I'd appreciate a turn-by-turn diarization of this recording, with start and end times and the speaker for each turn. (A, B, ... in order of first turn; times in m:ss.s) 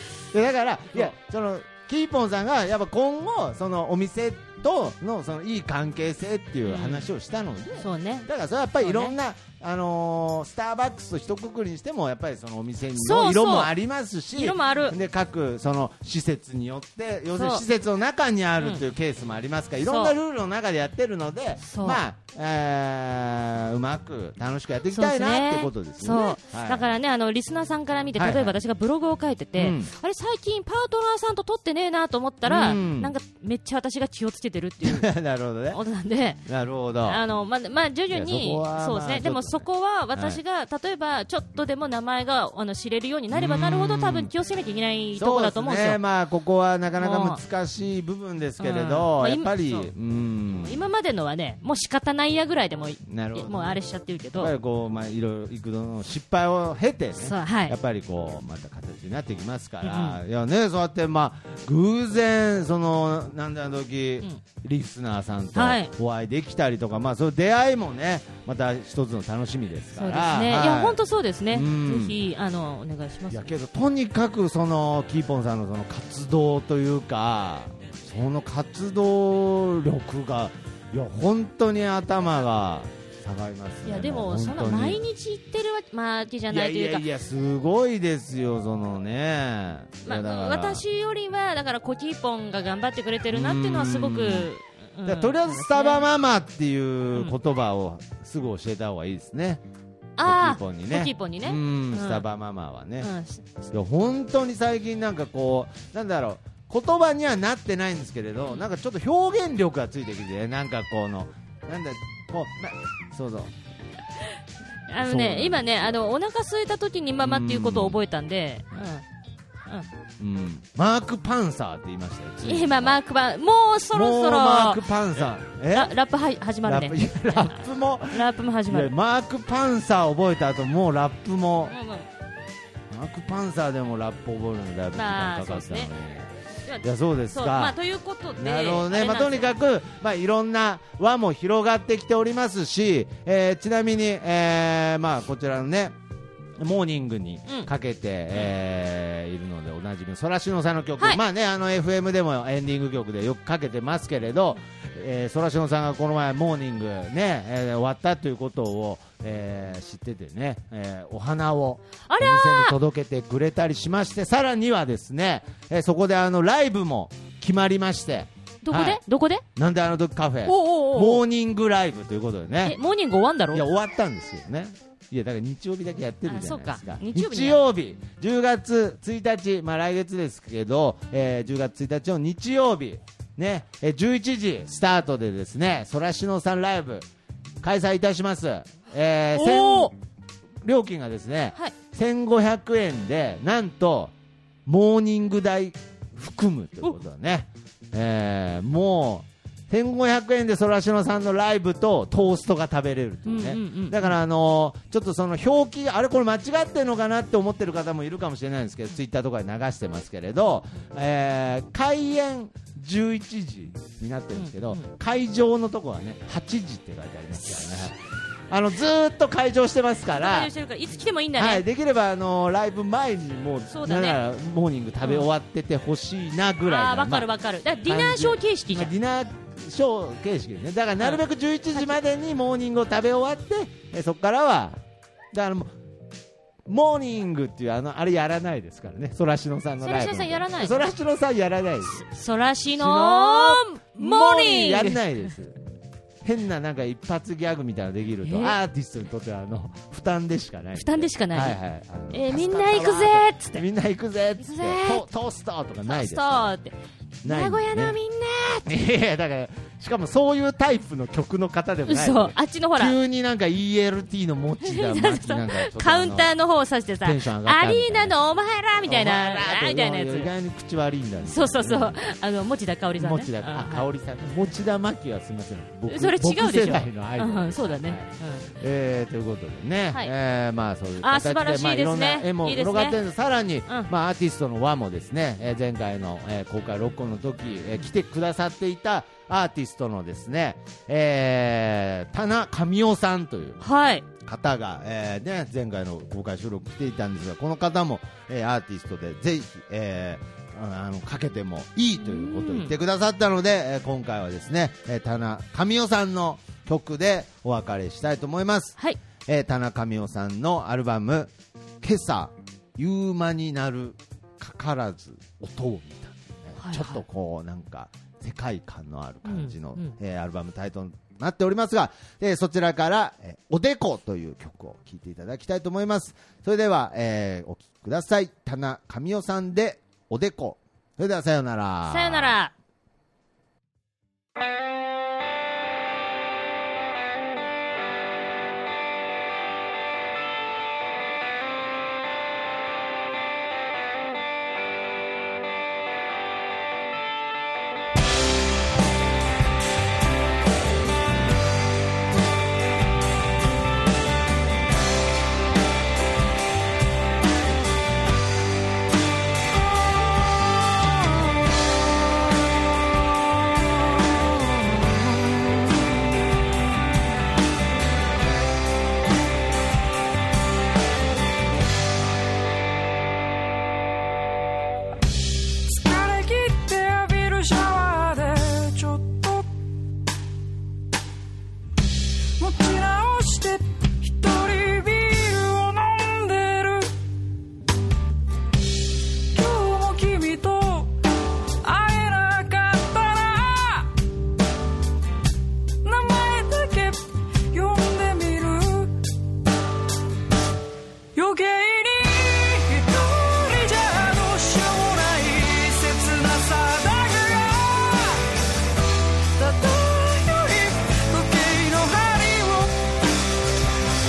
0:00.3-0:26.9 A
0:06.6-0:07.1 B
0:07.8-0:08.3 B
0:08.8-0:09.2 B
0:13.0-0:13.7 B
0:14.3-0:15.0 B
0:17.4-0:17.6 B
0:18.6-0:18.8 B
0:19.8-0:20.1 B
0:21.6-0:22.0 B
0:24.9-0:35.1 B
0:28.2-0:28.6 A
0:29.6-0:29.9 A
0:32.4-0:33.1 A
0:34.8-0:35.8 A
0:35.7-0:36.4 B
0:36.4-0:37.2 A
0:37.0-0:46.0 B
0:38.1-0:40.4 A
0:43.3-0:44.3 A
0:45.1-0:50.8 A
0:47.0-0:47.4 B
0:48.6-0:49.9 B
0:50.6-0:54.5 B
0:53.0-0:53.8 A
0:54.3-1:12.2 A
0:57.2-0:57.8 B
0:59.8-1:00.2 B
1:05.5-1:05.9 B
1:10.0-1:13.5 B
1:13.3-1:25.0 A
1:23.8-1:27.1 B
1:26.5-1:30.8 A
1:30.0-1:36.0 B
1:33.3-1:34.5 A
1:35.0-1:39.6 A
1:40.2-1:42.2 B
1:40.2-1:43.1 A
1:43.0-1:43.5 B
1:43.7-1:53.5 A
1:54.9-1:59.0 B
1:55.0-1:55.9 A
1:57.2-1:58.0 A
2:00.2-2:03.0 A
2:02.4-2:04.8 B
2:03.9-2:05.9 A
2:05.7-2:08.9 B
2:06.6-2:11.7 A
2:11.7-2:12.1 B
2:12.9-2:17.8 A
2:14.9-2:15.9 B
2:16.6-2:19.5 B
2:18.4-2:26.0 A
2:26.6-2:49.0 A
2:42.0-2:42.8 B
2:48.6-2:49.4 B
2:49.6-2:52.8 A
2:50.4-2:51.2 B
2:52.6-2:53.6 B
2:53.5-3:07.1 A
2:56.2-2:57.6 B
3:07.6-3:10.0 A
3:09.3-3:09.9 B
3:10.6-3:14.1 A
3:14.6-3:38.0 A
3:23.2-3:24.2 B
3:34.3-3:34.9 B
3:37.4-3:37.9 B
3:38.5-3:40.5 A
3:40.1-3:41.6 B
3:41.4-3:47.3 A
3:43.7-3:44.2 B
3:46.7-3:48.9 B
3:47.8-3:54.8 A
3:55.3-3:55.7 A
3:56.6-4:02.0 A
3:59.8-4:00.9 B
4:01.9-4:05.2 B
4:02.7-4:05.6 A
4:06.2-4:16.5 A
4:08.2-4:08.6 B
4:10.8-4:11.6 B
4:12.1-4:13.6 B
4:14.4-4:15.0 B
4:15.9-4:18.7 B
4:17.2-4:18.0 A
4:18.6-4:26.3 A
4:21.9-4:23.0 B
4:24.6-4:30.3 B
4:27.0-4:28.1 A
4:28.8-4:32.0 A
4:31.2-4:33.9 B
4:33.0-4:53.6 A
4:35.9-4:38.5 B
4:41.0-4:43.0 B
4:53.6-4:54.0 B
4:54.2-5:32.3 A
5:02.0-5:02.7 B
5:16.6-5:17.0 B
5:19.2-5:20.0 B
5:31.9-5:32.5 B
6:15.6-6:19.6 C
6:22.4-6:26.9 C
6:29.3-6:31.0 C
6:31.6-6:33.9 C
6:35.8-6:39.1 C
6:41.1-6:48.3 C
6:49.3-6:52.7 C